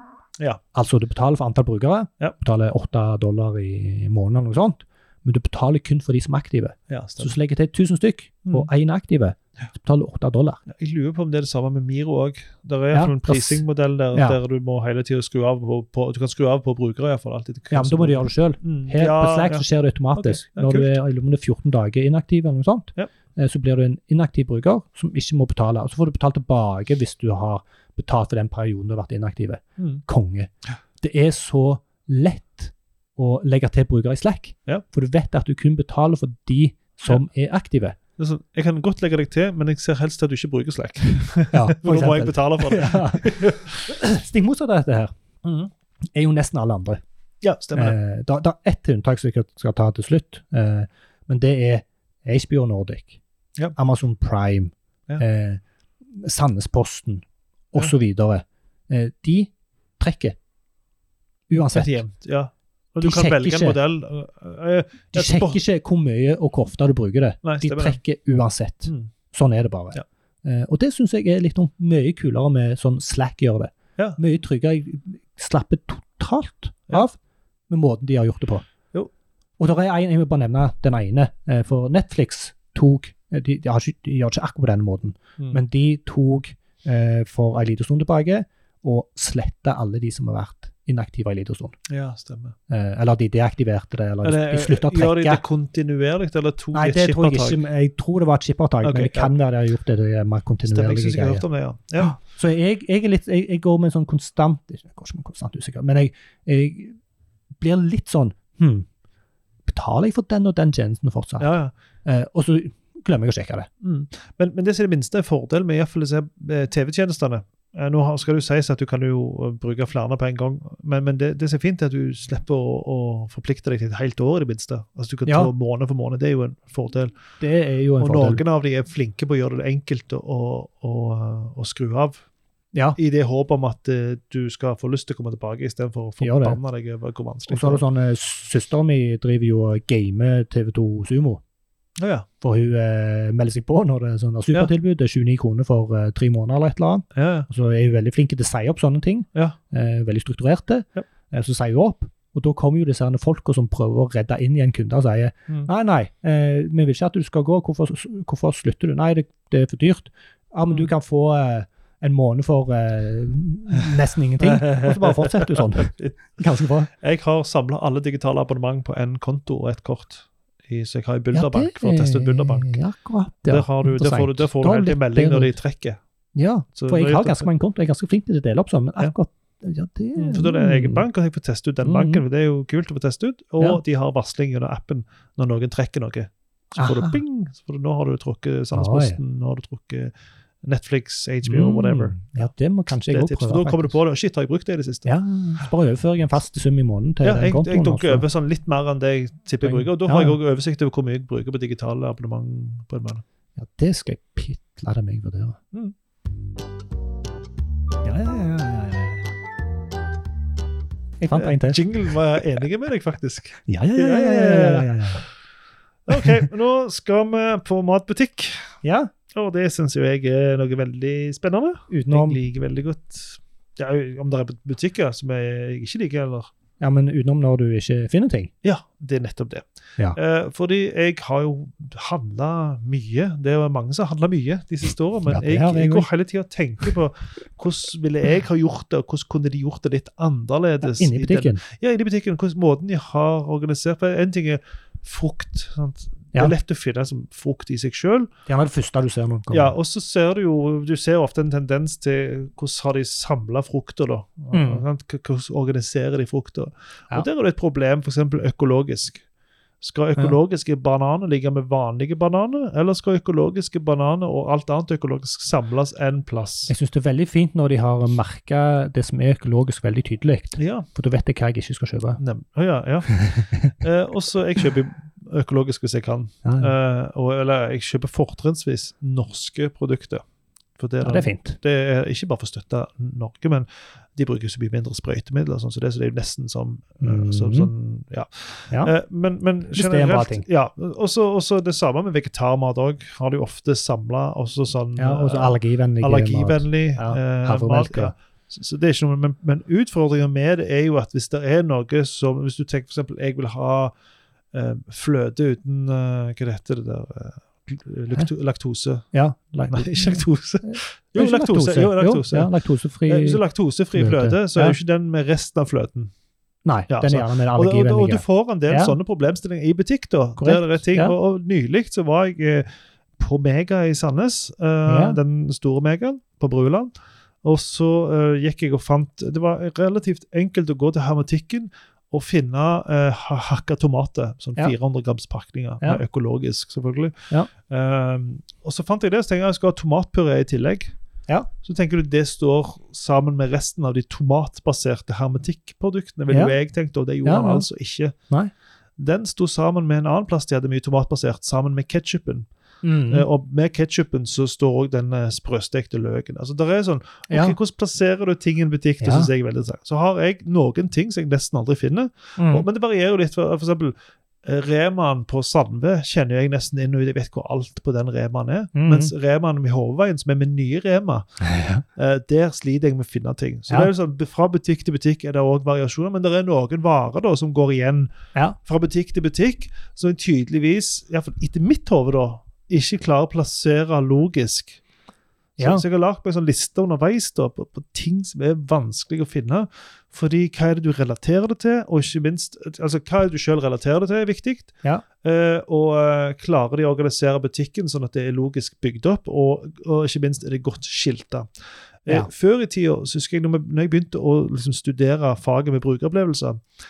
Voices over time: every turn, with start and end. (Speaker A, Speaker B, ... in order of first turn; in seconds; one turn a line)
Speaker A: 0.7-10.6
Speaker B: 6.9-7.3
Speaker B: 10.7-20.9
Speaker A: 12.9-13.6
Speaker A: 17.7-38.0
Speaker B: 38.2-43.8
Speaker A: 41.5-45.1
Speaker B: 45.4-45.7
Speaker A: 46.1-47.0
Speaker B: 47.4-48.0
Speaker A: 47.7-53.2
Speaker A: 53.8-55.6
Speaker A: 56.1-60.4
Speaker A: 61.5-62.0
Speaker B: 61.5-65.6
Speaker A: 63.0-63.8
Speaker A: 65.1-77.2
Speaker B: 67.4-68.0
Speaker A: 77.7-78.6
Speaker A: 79.6-91.8
Speaker B: 91.9-92.5
Speaker A: 92.7-95.4
Speaker B: 94.2-97.6
Speaker A: 96.7-101.4
Speaker B: 98.8-99.3
Speaker B: 100.7-102.2
Speaker A: 102.0-107.0
Speaker A: 107.6-108.9
Speaker A: 109.7-111.5
Speaker B: 111.4-111.7
Speaker A: 112.0-113.7
Speaker B: 113.8-127.1
Speaker A: 125.2-125.5
Speaker A: 127.4-128.4
Speaker B: 128.0-132.2
Speaker B: 132.9-137.8
Speaker A: 136.2-136.6
Speaker A: 137.5-141.4
Speaker B: 142.0-142.3
Speaker A: 142.4-166.9
Speaker B: 147.1-147.5
Speaker B: 164.4-166.2
Speaker B: 166.9-172.8
Speaker A: 171.3-175.5
Speaker B: 173.4-176.0
Speaker A: 176.3-181.0
Speaker B: 176.7-177.5
Speaker B: 180.2-192.4
Speaker A: 181.8-182.2
Speaker A: 186.8-187.2
Speaker A: 188.7-189.2
Speaker A: 191.4-194.0
Speaker B: 193.1-195.1
Speaker A: 195.0-198.2
Speaker B: 197.2-203.2
Speaker A: 199.6-200.4
Speaker A: 203.6-205.6
Speaker A: 208.0-209.2
Speaker A: 211.2-212.2
Speaker B: 211.3-215.0
Speaker A: 213.7-215.2
Speaker B: 216.1-218.8
Speaker A: 216.1-216.5
Speaker A: 218.8-219.1
Speaker B: 219.3-226.5
Speaker A: 221.9-222.4
Speaker A: 226.8-228.5
Speaker B: 228.6-248.3
Speaker A: 235.3-236.1
Speaker A: 240.8-241.6
Speaker A: 248.5-249.7
Speaker B: 249.5-259.2
Speaker A: 254.5-254.8
Speaker B: 259.8-266.7
Speaker A: 266.7-272.2
Speaker B: 270.6-270.9
Speaker B: 272.2-280.2
Speaker A: 273.1-273.7
Speaker A: 276.4-276.7
Speaker B: 280.8-303.9
Speaker A: 281.0-281.6
Speaker A: 287.0-287.7
Speaker A: 289.7-290.4
Speaker A: 295.0-298.1
Speaker B: 304.5-309.1
Speaker A: 309.1-313.4
Speaker B: 309.7-312.5
Speaker B: 313.1-316.1
Speaker A: 313.9-314.8
Speaker A: 316.6-318.9
Speaker B: 316.9-322.7
Speaker A: 320.4-321.1
Speaker B: 323.2-326.9
Speaker A: 324.9-325.2
Speaker B: 327.4-340.9
Speaker B: 341.6-348.1
Speaker A: 346.3-346.5
Speaker A: 347.2-347.6
Speaker B: 349.0-352.5
Speaker A: 352.8-353.2
Speaker B: 353.1-371.3
Speaker A: 357.3-357.6
Speaker A: 359.0-359.3
Speaker A: 362.4-362.6
Speaker A: 368.7-369.1
Speaker A: 371.4-371.8
Speaker B: 371.9-378.1
Speaker B: 378.6-384.8
Speaker A: 385.6-385.8
Speaker B: 385.6-401.5
Speaker B: 402.0-406.6